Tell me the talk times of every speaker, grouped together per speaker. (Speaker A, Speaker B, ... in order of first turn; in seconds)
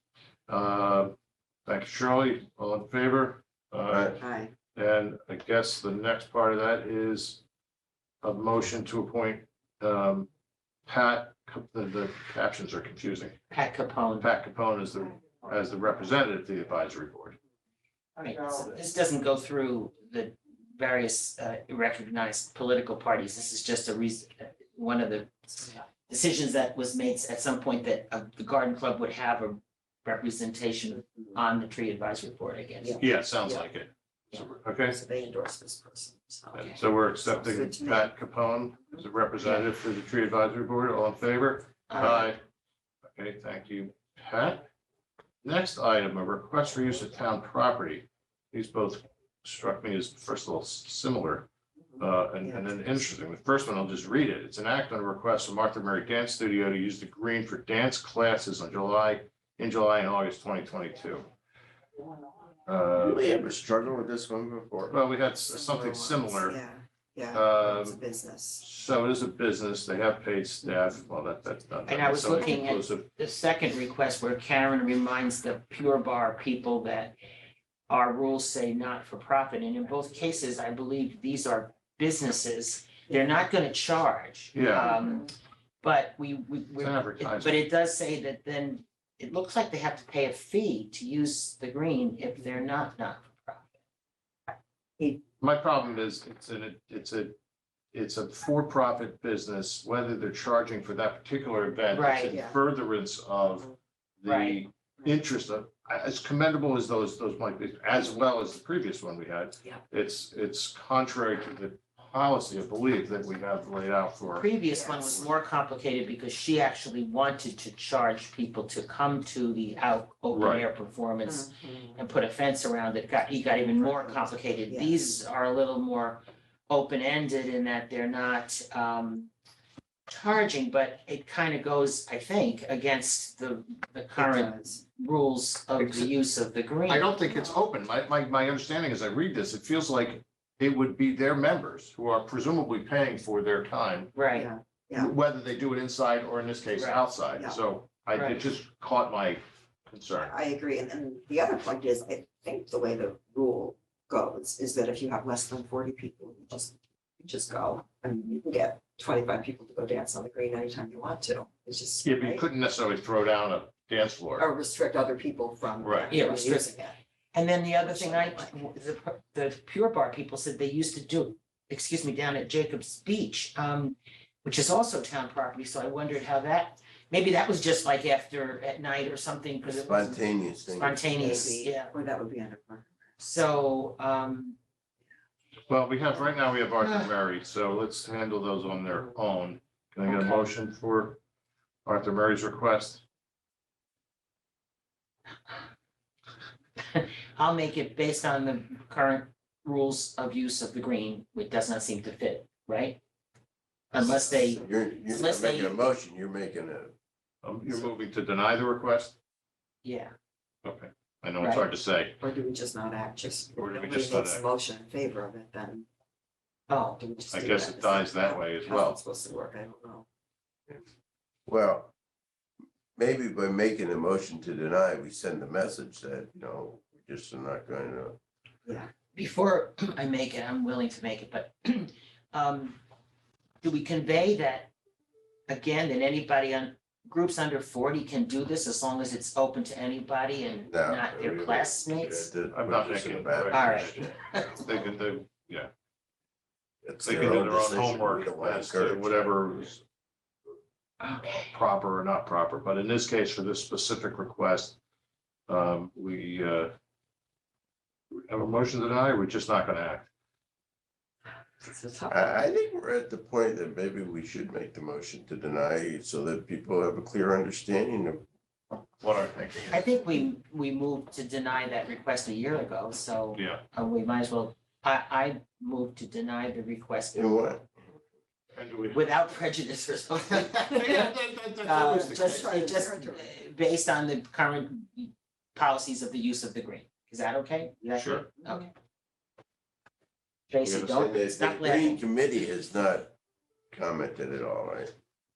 Speaker A: 0.5-1.1, 1.6-4.2, 4.7-7.4, 8.2-10.3, 10.9-13.4, 14.2-17.4, 33.0-35.0, 36.5-42.4, 43.2-44.6, 45.4-51.5, 52.0-61.2, 62.7-63.4, 64.9-66.6, 67.3-68.0, 68.6-73.0, 84.5-85.0, 86.8-87.6, 95.4-97.3, 97.9-114.5, 120.3-120.6, 135.8-136.1, 136.9-144.1, 144.9-150.3, 162.0-164.5, 165.8-166.1, 185.7-191.2, 191.8-193.0, 207.4-209.2, 210.6-212.2, 213.6-214.4, 217.3-219.0, 242.5-245.7, 247.0-249.8, 251.0-254.8, 255.5-256.7, 258.1-260.1, 269.0-269.8, 273.4-273.6, 278.5-279.0, 280.4-282.6, 287.9-288.3
Speaker B: 3.9-4.1, 62.9-64.9, 179.6-181.1, 204.0-206.9, 221.4-221.9, 222.9-228.2, 240.7-244.4, 246.8-249.5, 262.1-268.2, 277.1-277.6, 290.6-293.1, 293.7-294.9
Speaker C: 4.2-4.5, 32.8-33.7, 34.9-38.1, 65.5-68.6, 102.2-102.6, 114.7-115.2, 121.2-122.0, 123.4-125.0, 134.2-134.8, 137.2-137.6, 144.3-145.1, 147.3-147.6, 150.1-162.4, 164.4-167.0, 167.8-168.6, 181.1-182.9, 212.2-215.8, 217.0-220.1, 228.7-228.9, 261.6-262.4, 281.7-283.3
Speaker D: 13.5-14.3, 18.1-33.0, 41.9-42.3, 71.9-77.1, 77.9-85.3, 85.8-93.7, 101.9-102.3, 104.2-104.6, 114.3-129.3, 130.1-137.0, 144.1-144.5, 146.8-147.0, 148.1-148.4, 166.1-166.7, 167.3-181.9, 183.2-184.6, 196.8-203.0, 203.9-205.9, 209.8-210.1, 216.7-217.0, 229.1-232.8, 233.6-234.7, 235.5-242.3, 243.5-244.8, 269.7-277.3, 278.9-288.7, 290.5-292.0